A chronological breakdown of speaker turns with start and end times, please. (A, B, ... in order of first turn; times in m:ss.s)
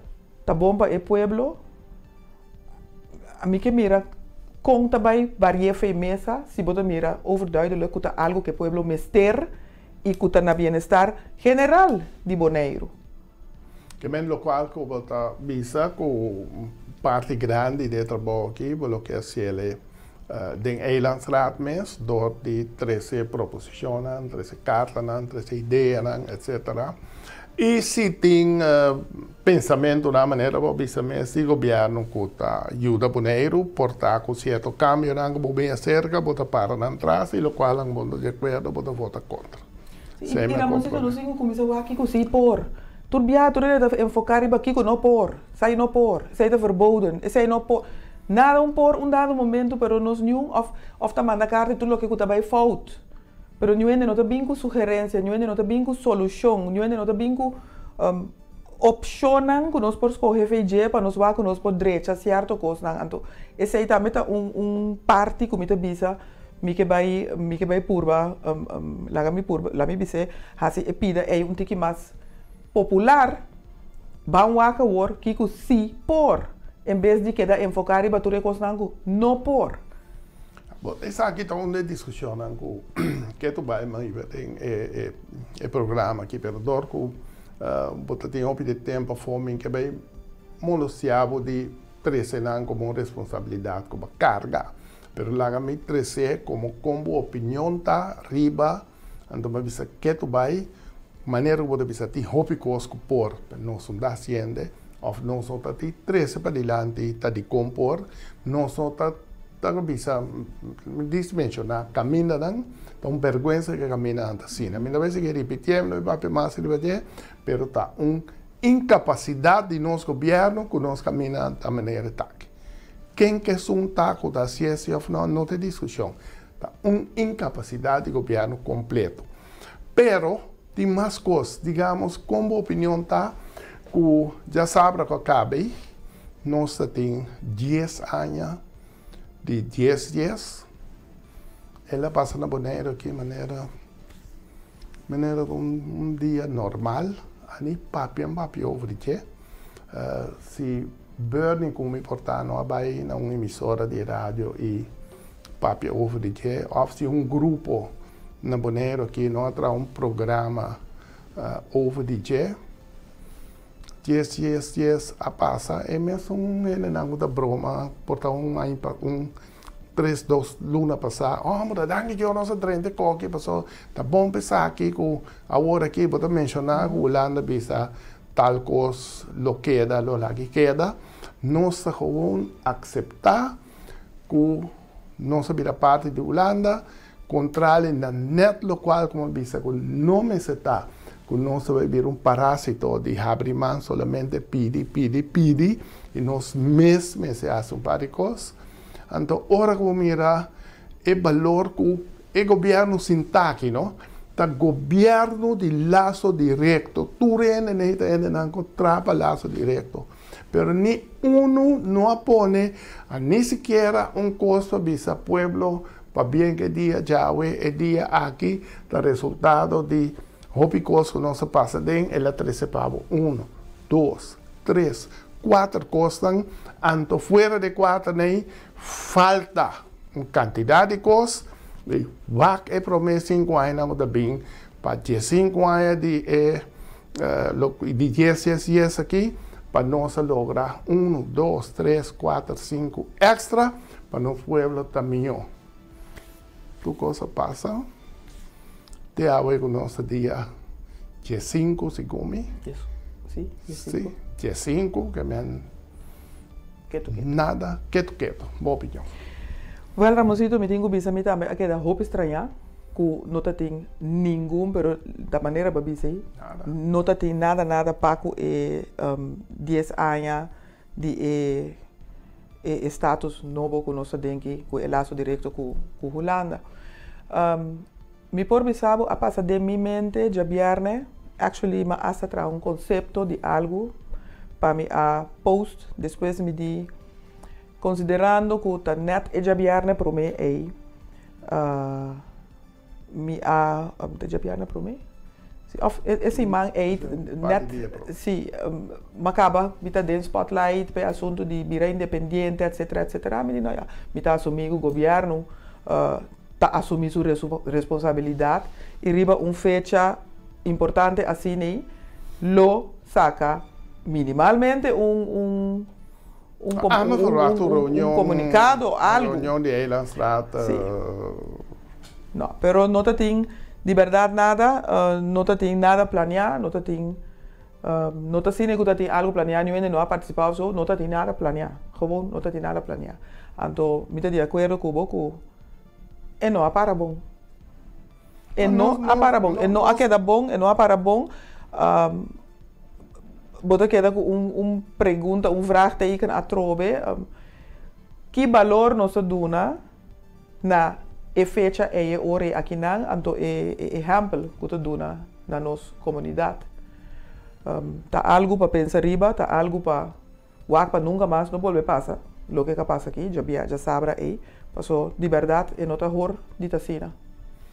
0:00.4-0:01.6 A
0:03.4-0:04.0 A
0:04.6-0:09.5 A
0:10.0-0:12.9 A
0:14.0-0:27.0 B
0:27.6-0:39.6 B
0:40.2-0:53.0 A
0:40.2-0:41.2 B
0:53.6-1:12.1 A
1:12.7-1:13.4 A
1:14.2-1:19.8 A
1:20.8-1:30.0 B
1:30.6-1:40.7 B
1:41.2-2:02.5 B
2:03.1-2:09.2 B
2:09.9-2:13.4 B
2:13.9-2:15.8 B
2:16.4-2:18.6 B
2:19.4-2:20.6 B
2:21.9-2:23.7 B
2:25.1-2:29.2 B
2:29.9-2:34.9 B
2:35.6-2:40.8 B
2:41.4-2:42.6 B
2:44.0-2:49.3 B
2:49.9-3:03.6 B
3:04.3-3:18.6 B
3:19.1-3:20.5 B
3:21.0-4:05.4 B
4:06.8-4:07.8 B
4:09.1-4:10.5 B
4:11.2-4:12.5 B
4:12.6-4:14.1 A
4:13.7-4:15.7 B
4:16.9-4:17.3 A
4:17.1-4:19.1 B
4:20.0-4:31.8 A
4:26.4-4:26.7 B
4:32.6-4:36.6 A
4:37.3-4:43.9 A
4:44.6-4:46.9 A
4:47.8-4:50.7 A
4:51.4-4:52.2 A
4:53.1-4:55.0 A
4:55.7-5:11.9 A
4:56.3-4:58.1 B
5:12.4-5:15.9 A
5:16.6-5:19.5 A
5:16.7-5:21.6 B
5:20.6-5:20.9 A
5:22.3-5:27.2 A
5:27.8-5:35.4 A
5:36.4-5:37.2 A
5:38.6-5:42.4 A
5:38.6-5:40.0 B
5:43.6-5:47.3 A
5:48.3-5:49.8 A
5:50.6-5:56.6 A
5:57.6-6:00.1 A
6:00.7-6:07.1 A